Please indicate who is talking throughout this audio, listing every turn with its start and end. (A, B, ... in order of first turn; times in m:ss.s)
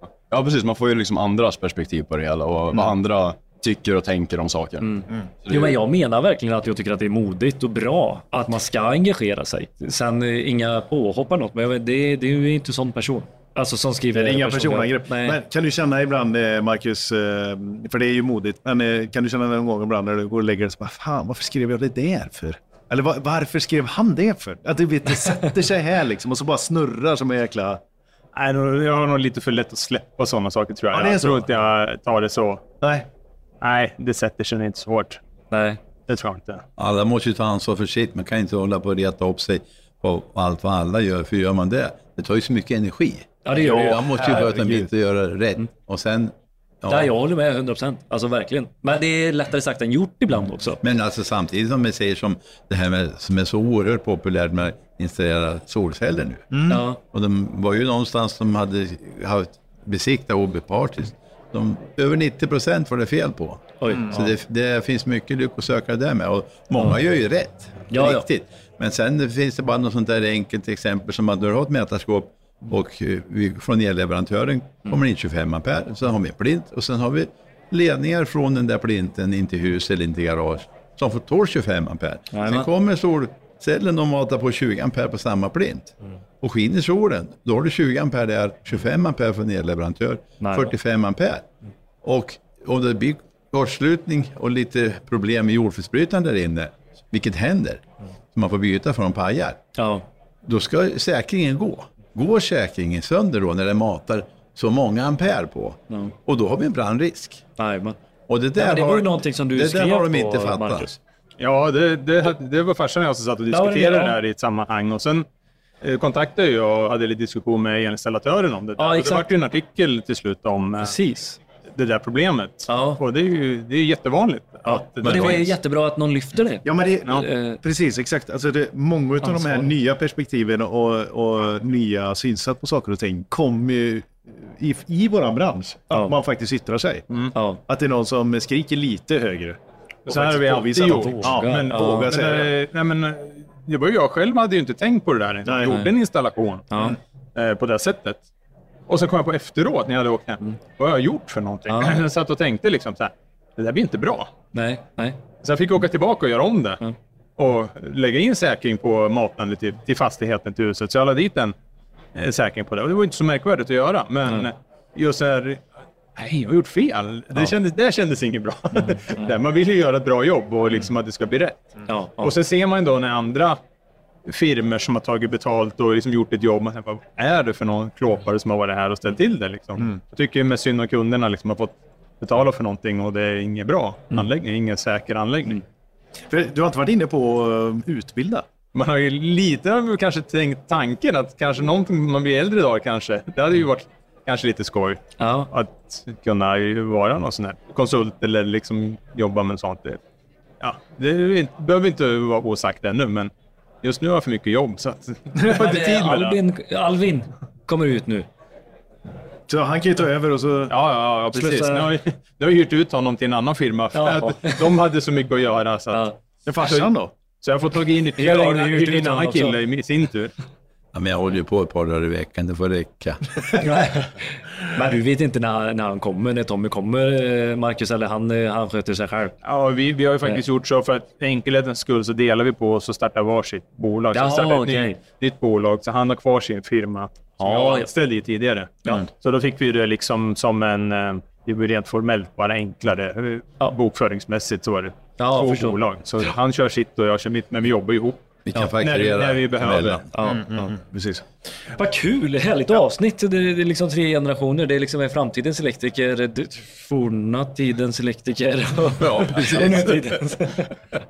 0:00.3-0:05.8 A
0:04.8-0:15.4 B
0:14.1-0:27.8 C
0:28.3-0:32.6 D
0:30.9-0:31.4 C
0:32.8-0:33.1 C
0:33.6-0:35.2 D
0:35.5-0:35.8 B
0:36.1-0:36.6 D
0:36.8-0:47.1 E
0:43.4-0:44.3 B
0:43.6-0:44.8 C
0:46.9-0:50.8 B
0:50.8-1:31.4 E
0:56.5-0:56.8 C
0:56.7-0:57.0 B
1:03.8-1:04.1 B
1:07.9-1:08.2 B
1:22.3-1:22.7 B
1:30.4-1:30.7 B
1:32.0-1:39.6 E
1:39.8-1:40.0 B
1:40.4-1:47.4 E
1:47.6-1:48.0 B
1:48.3-1:51.0 E
1:48.6-1:50.9 B
1:51.4-1:55.2 D
1:53.5-1:54.2 B
1:55.8-2:01.0 D
1:58.8-1:59.3 B
2:00.8-2:01.4 B
2:01.7-2:05.5 D
2:02.7-2:03.0 B
2:04.6-2:07.6 B
2:05.0-2:05.5 E
2:06.6-2:22.6 C
2:09.2-2:09.7 B
2:17.3-2:17.6 B
2:20.0-2:28.2 D
2:21.2-2:22.1 B
2:25.4-2:25.7 C
2:26.7-2:27.0 B
2:28.9-2:34.3 D
2:31.7-2:32.0 B
2:34.5-2:35.2 B
2:35.4-2:36.8 D
2:37.4-2:41.5 D
2:42.1-2:45.6 D
2:46.2-2:53.6 D
2:51.9-2:52.3 B
2:54.2-3:05.6 D
3:06.3-3:08.4 C
3:08.7-3:20.0 D
3:15.2-3:15.5 B
3:20.6-3:23.3 D
3:23.8-3:26.4 D
3:25.5-3:28.3 B
3:29.5-3:30.7 C
3:30.7-3:36.1 D
3:31.2-3:31.9 B
3:33.9-3:34.7 B
3:35.9-3:36.2 B
3:36.4-3:37.1 C
3:36.6-3:40.3 D
3:38.2-3:39.6 B
3:40.9-3:43.6 E
3:43.6-3:44.1 B
3:44.6-3:49.3 B
3:49.4-4:10.1 D
3:54.1-3:55.0 B
3:57.4-3:57.9 B
4:05.2-4:05.8 B
4:08.4-4:10.1 E
4:10.1-4:10.5 B
4:10.3-4:11.2 C
4:11.7-4:20.7 B
4:19.0-4:20.2 E